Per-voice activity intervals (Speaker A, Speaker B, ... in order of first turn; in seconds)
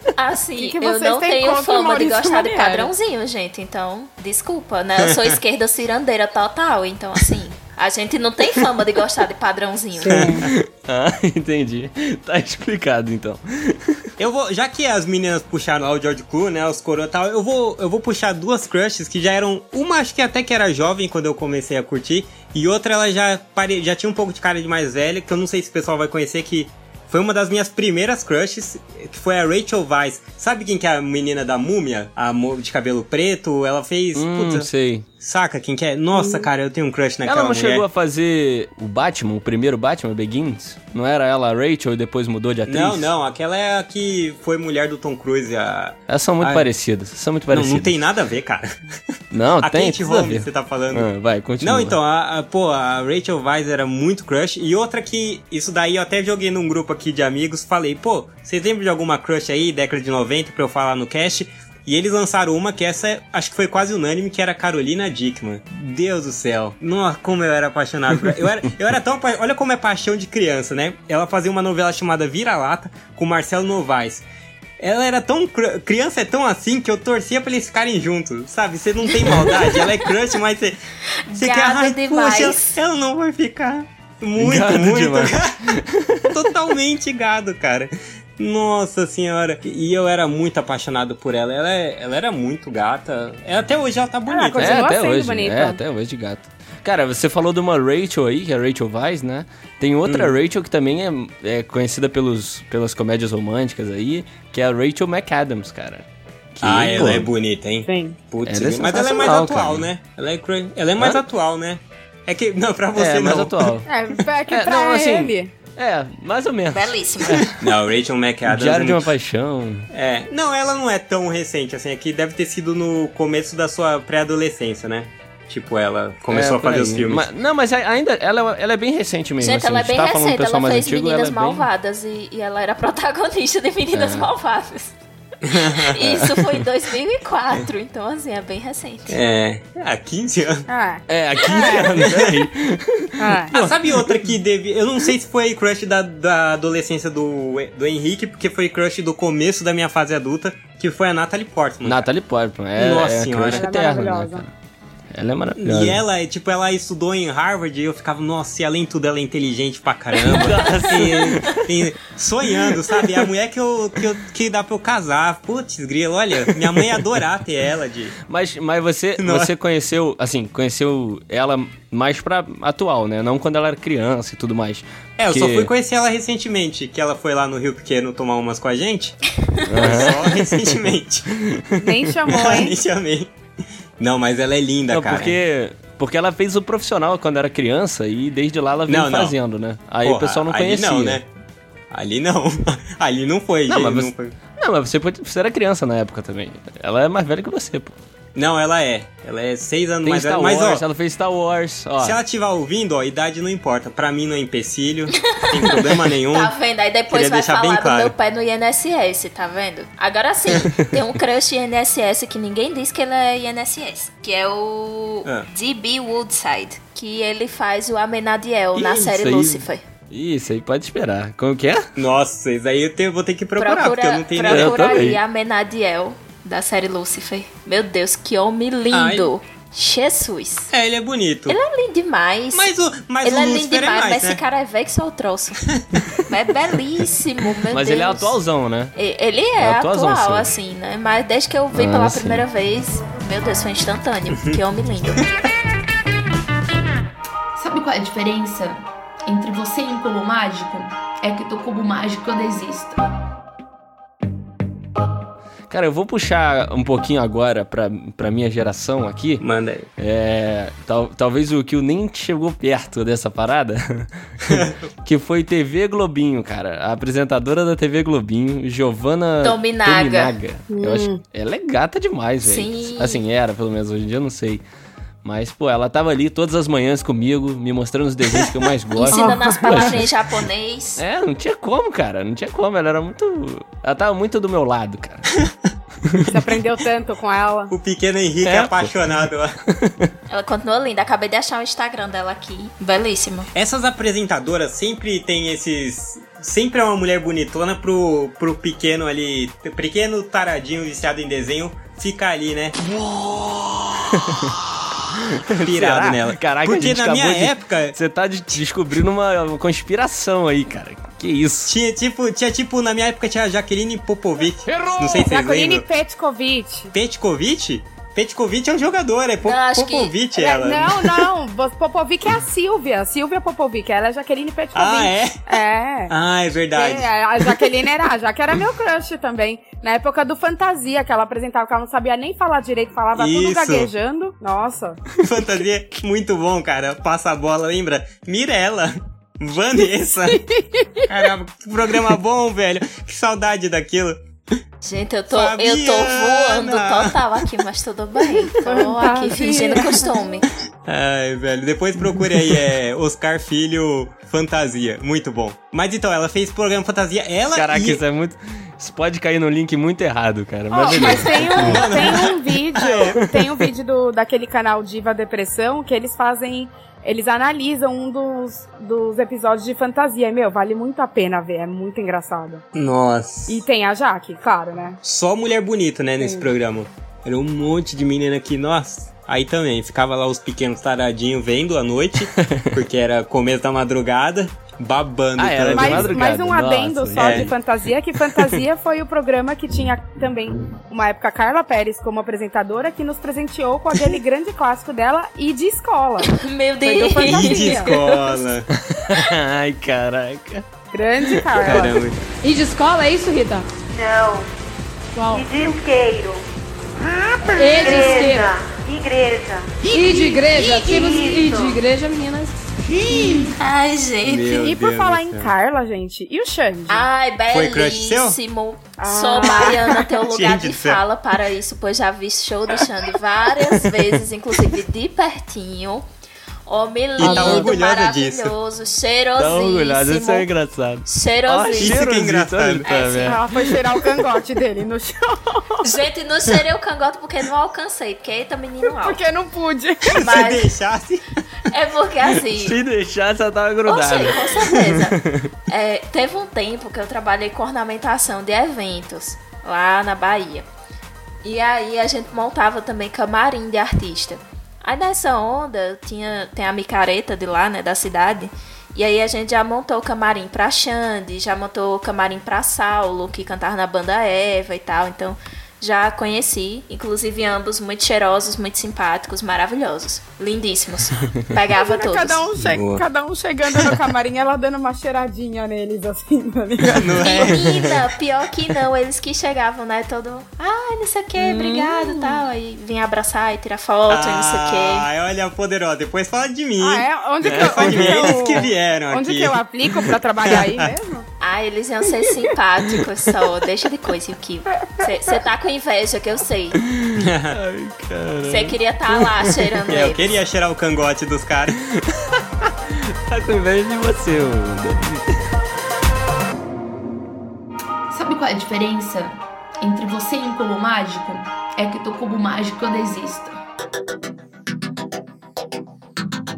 Speaker A: 0.2-10.3, 81.3-82.8, 116.7-117.5, 129.4-134.9, 135.5-139.2, 205.4-219.8, 223.6-230.7, 231.5-232.7, 233.2-235.6, 236.2-238.4, 238.9-245.3, 269.4-270.3, 272.4-273.2, 278.9-281.0, 290.3-293.5, 319.4-320.1, 344.8-350.4, 396.2-398.1, 413.4-414.7, 416.9-426.0, 426.7-430.5, 431.1-432.0, 432.8-433.4, 435.8-439.2, 440.1-440.7, 441.7-442.8, 443.9-450.6, 451.4-472.4, 477.2-485.1, 491.4-496.8, 498.4-500.3
Speaker B: 0.6-2.9, 10.0-10.4, 36.1-36.5, 94.3-95.8, 107.8-108.2, 113.8-115.5, 140.7-142.0, 143.2-143.5, 153.5-154.4, 181.8-182.8, 270.7-271.2, 279.1-279.9, 286.3-287.7, 315.1-316.9, 320.3-326.1, 326.7-335.0, 340.4-341.1, 348.4-350.2, 360.7-372.6, 373.5-375.0, 376.2-376.5, 385.7-396.3, 396.8-398.0, 400.9-402.0, 409.9-411.2, 414.6-417.0, 419.0-420.0, 433.2-435.8, 438.9-440.3, 471.7-477.1, 486.8-491.2
Speaker C: 10.1-10.4, 14.2-34.7, 35.2-37.8, 42.7-46.7, 47.5-48.7, 49.6-51.1, 51.6-74.2, 74.8-80.8, 81.3-85.6, 86.3-94.9, 100.0-100.3, 106.6-113.7, 117.6-119.0, 119.9-127.2, 135.5-135.9, 139.1-140.7, 141.9-142.5, 143.5-152.1, 152.8-153.8, 155.6-168.1, 169.2-169.5, 175.2-179.2, 179.8-181.3, 182.3-183.3, 184.0-185.3, 188.9-189.3, 190.0-191.3, 191.9-194.3, 198.3-200.8, 202.0-206.5, 207.1-208.1, 221.9-225.0, 228.9-229.3, 230.7-231.6, 232.5-234.4, 259.4-259.9, 287.7-289.5, 293.5-302.7, 305.6-307.9, 311.7-315.8, 316.9-321.2, 324.7-325.4, 326.1-327.6, 333.1-333.9, 335.2-340.4, 341.1-344.2, 345.3-347.2, 350.9-358.0, 360.9-363.2, 372.7-373.6, 375.0-386.2, 387.1-387.5, 397.2-398.7, 401.6-402.2, 414.2-415.5, 417.5-418.4, 420.1-421.0, 427.2-428.5, 431.7-432.9, 440.1-441.2, 472.6-473.0, 476.9-478.0, 484.1-489.6, 490.4-490.9, 497.1-497.6, 499.9-501.8
Speaker D: 10.4-14.0, 34.1-35.0, 37.2-43.1, 46.1-48.0, 49.3-52.0, 84.4-86.4, 94.6-107.3, 108.4-109.9, 112.9-113.9, 114.5-117.7, 118.4-119.9, 126.3-131.7, 133.9-134.3, 141.1-144.2, 151.8-154.5, 155.1-156.0, 160.2-161.6, 166.5-167.1, 168.3-175.7, 179.7-182.2, 184.9-191.2, 193.7-197.9, 200.0-202.2, 218.7-221.9, 224.4-225.2, 237.7-238.9, 239.6-240.5, 241.7-242.4, 255.7-259.4, 260.0-274.6, 275.2-280.0, 281.0-285.3, 288.4-288.9, 289.7-290.1, 302.8-311.7, 357.5-362.2, 363.3-363.5, 382.4-382.7, 385.4-387.5, 398.9-400.7, 401.2-401.6, 429.4-433.5, 442.5-445.5, 481.4-482.2, 487.4-488.6, 496.9-499.5, 501.9-505.4
Speaker E: 247.6-253.0, 508.1-513.6
Speaker F: 402.4-403.6, 405.1-405.4, 407.5-408.5, 409.8-413.5
Speaker G: 403.9-404.5, 405.3-406.4, 407.6-410.0, 410.5-411.8